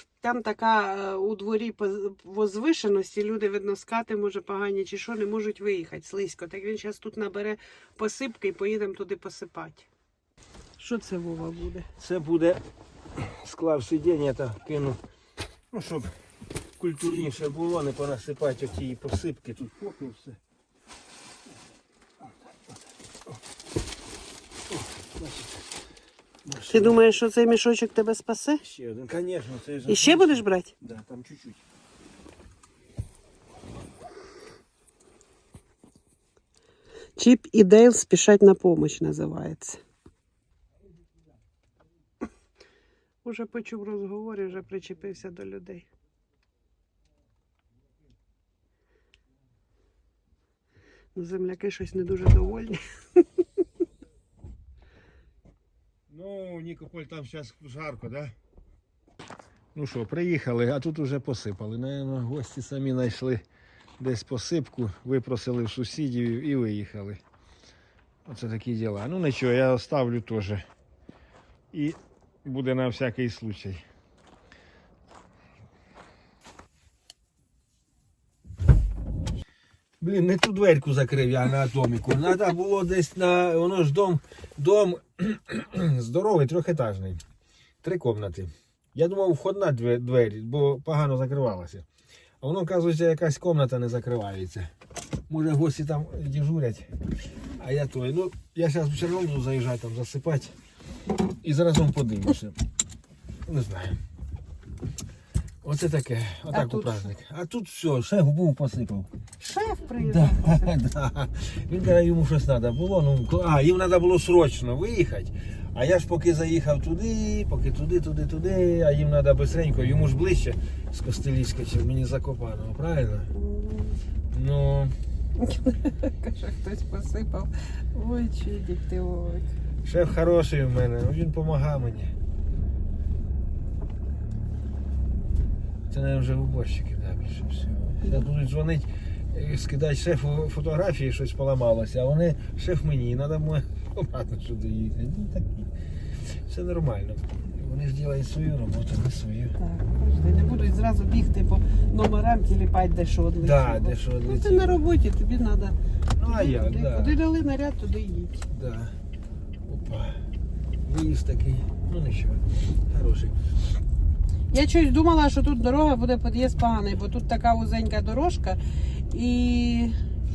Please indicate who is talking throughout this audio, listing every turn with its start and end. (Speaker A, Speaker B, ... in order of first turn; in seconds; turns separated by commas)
Speaker A: 0.2-9.9, Speaker A: 10.8-11.9, Speaker B: 12.0-12.6, Speaker B: 13.1-15.0, Speaker B: 15.7-16.2, Speaker B: 16.8-20.4, Speaker B: 24.7-25.6, Speaker B: 26.4-27.0, Speaker A: 26.7-28.6, Speaker B: 28.6-31.6, Speaker A: 29.9-30.7, Speaker A: 37.2-39.8, Speaker A: 43.2-45.9, Speaker A: 51.1-53.2, Speaker B: 56.1-58.3, Speaker B: 59.7-63.4, Speaker B: 64.0-67.2, Speaker B: 68.2-70.6, Speaker B: 71.7-73.8, Speaker B: 80.0-87.2, Speaker B: 87.8-91.8, Speaker B: 92.4-94.7, Speaker B: 95.3-96.9, Speaker B: 97.6-100.5, Speaker B: 101.4-102.5, Speaker B: 103.5-104.0, Speaker B: 105.6-109.1, Speaker A: 106.5-107.1, Speaker A: 109.4-110.7, Speaker B: 110.0-123.3, Speaker A: 123.3-124.0, Speaker B: 124.3-124.9, Speaker A: 125.4-129.5, Speaker B: 129.8-132.1, Speaker B: 135.9-145.7, Speaker A: 138.0-138.3, Speaker B: 146.5-149.5, Speaker A: 149.6-155.8, Speaker B: 153.4-154.8, Speaker B: 156.2-157.2, Speaker A: 156.3-158.4, Speaker B: 158.5-158.9, Speaker B: 159.6-160.2, Speaker B: 160.8-163.3, Speaker A: 164.5-168.6, Speaker A: 169.1-169.9